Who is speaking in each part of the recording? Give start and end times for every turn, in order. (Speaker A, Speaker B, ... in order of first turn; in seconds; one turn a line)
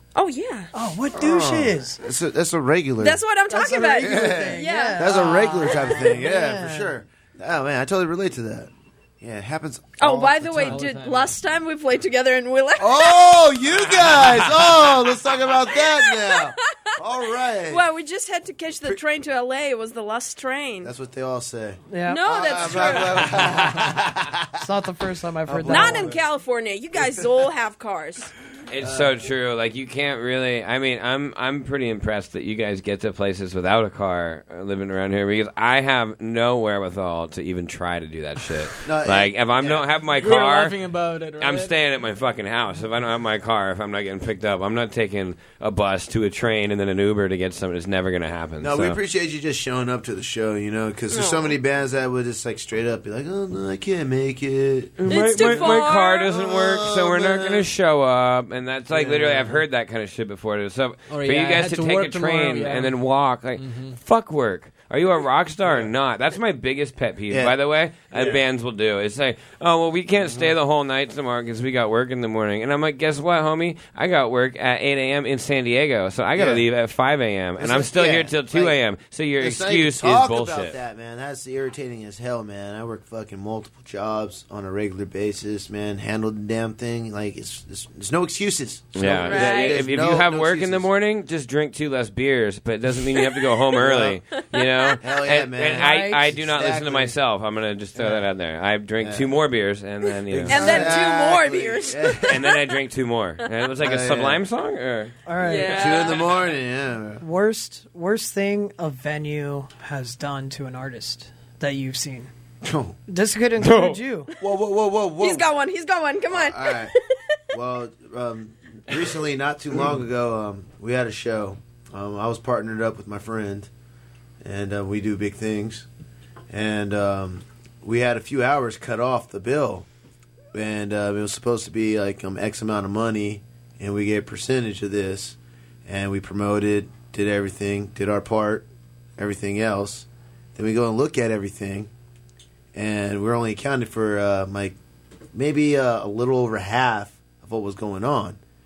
Speaker A: 0.1-0.7
Speaker B: 0.7-2.0
Speaker C: 1.1-3.2
Speaker A: 3.0-5.2
Speaker B: 3.5-6.9
Speaker C: 4.0-10.8
Speaker A: 10.0-14.2
Speaker D: 10.5-11.3
Speaker C: 12.8-17.8
Speaker A: 15.5-17.0
Speaker A: 17.7-20.9
Speaker C: 20.8-24.5
Speaker B: 21.9-23.8
Speaker A: 22.1-23.3
Speaker B: 24.6-26.1
Speaker C: 25.4-26.2
Speaker A: 25.7-28.3
Speaker C: 26.9-27.3
Speaker E: 28.7-40.8
Speaker C: 28.8-29.1
Speaker C: 38.9-39.9
Speaker D: 40.2-41.7
Speaker E: 41.4-49.0
Speaker C: 48.6-57.7
Speaker A: 51.1-51.5
Speaker E: 55.0-80.8
Speaker A: 55.1-56.3
Speaker C: 58.9-59.6
Speaker D: 61.1-63.0
Speaker D: 63.6-64.0
Speaker C: 67.3-67.6
Speaker C: 68.1-68.4
Speaker C: 70.2-70.5
Speaker C: 76.4-76.7
Speaker C: 77.6-78.8
Speaker C: 79.4-90.9
Speaker E: 89.0-100.9
Speaker A: 89.2-89.8
Speaker C: 93.8-94.2
Speaker A: 94.4-95.0
Speaker C: 95.0-97.2
Speaker B: 95.8-96.3
Speaker C: 98.0-98.3
Speaker C: 99.0-99.3
Speaker C: 100.3-102.4
Speaker A: 100.5-102.5
Speaker B: 100.5-101.0
Speaker E: 102.2-105.1
Speaker C: 103.8-104.4
Speaker B: 105.3-106.1
Speaker A: 105.4-106.3
Speaker C: 105.7-107.2
Speaker B: 107.2-112.3
Speaker C: 112.6-113.0
Speaker B: 113.1-114.3
Speaker E: 113.6-114.0
Speaker C: 114.4-115.5
Speaker A: 115.2-117.3
Speaker C: 116.3-116.9
Speaker C: 117.5-123.7
Speaker C: 124.4-125.9
Speaker C: 126.5-129.9
Speaker C: 130.5-141.9
Speaker C: 142.7-144.8
Speaker C: 145.3-148.4